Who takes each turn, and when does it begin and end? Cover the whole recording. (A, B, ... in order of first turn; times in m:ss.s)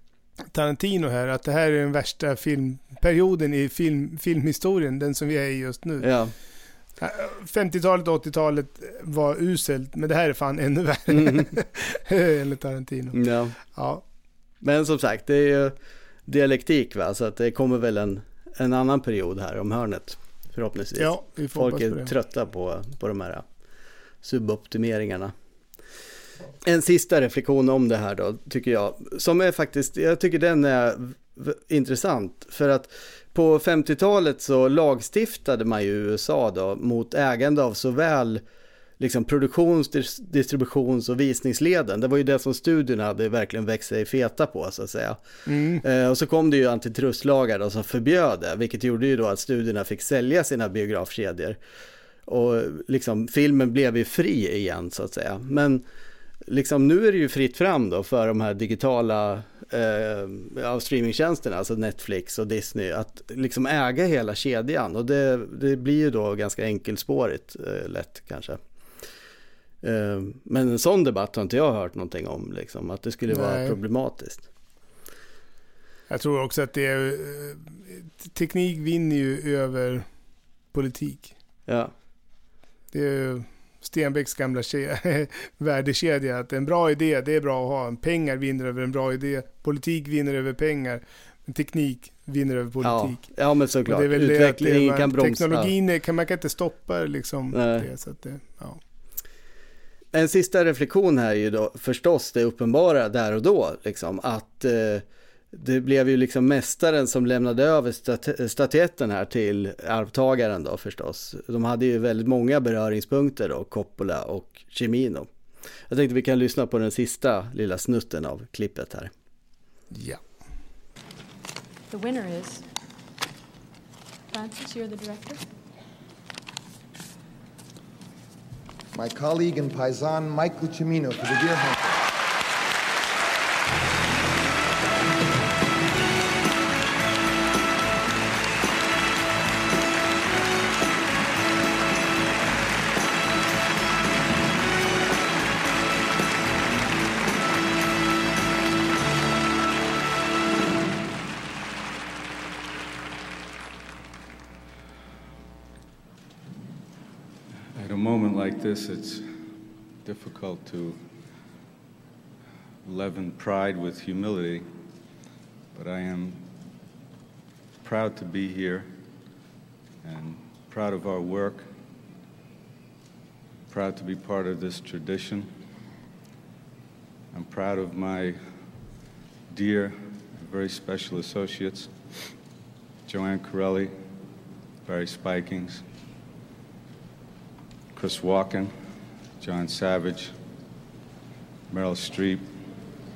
0:00.5-0:06.1 A
0:06.0-0:06.3 B
0:07.0-0:14.0 A
0:11.1-0:11.5 B
0:13.1-0:13.6 B
0:14.6-0:15.7 B
0:16.2-0:23.4 B
0:21.0-0:22.1 A
0:24.2-0:25.3 B
0:26.6-0:38.4 B
0:39.0-0:45.2 B
0:45.4-0:45.8 A
0:45.8-0:51.6 B
0:52.2-0:55.8 B
0:56.4-1:08.6 B
1:09.8-1:14.5 B
1:13.3-1:13.8 A
1:16.1-1:20.0 A
1:20.7-1:21.3 A
1:21.7-1:21.9 B
1:22.9-1:33.3 A
1:32.8-1:35.7 B
1:33.9-1:38.8 A
1:37.5-1:37.9 B
1:40.1-1:55.3 B
1:55.9-1:59.1 B
1:59.9-2:00.2 A
2:01.9-2:02.7 C
2:04.3-2:05.4 C
2:08.9-2:11.8 D
2:37.8-2:41.0 E
2:42.8-2:44.7 E
2:45.7-2:46.5 E
2:47.8-2:48.9 E
2:50.0-2:51.7 E
2:53.7-2:55.5 E
2:57.3-2:58.4 E
2:59.5-3:01.9 E
3:03.0-3:03.9 E
3:04.8-3:05.8 E
3:07.9-3:08.7 E
3:09.4-3:10.3 E
3:11.7-3:12.5 E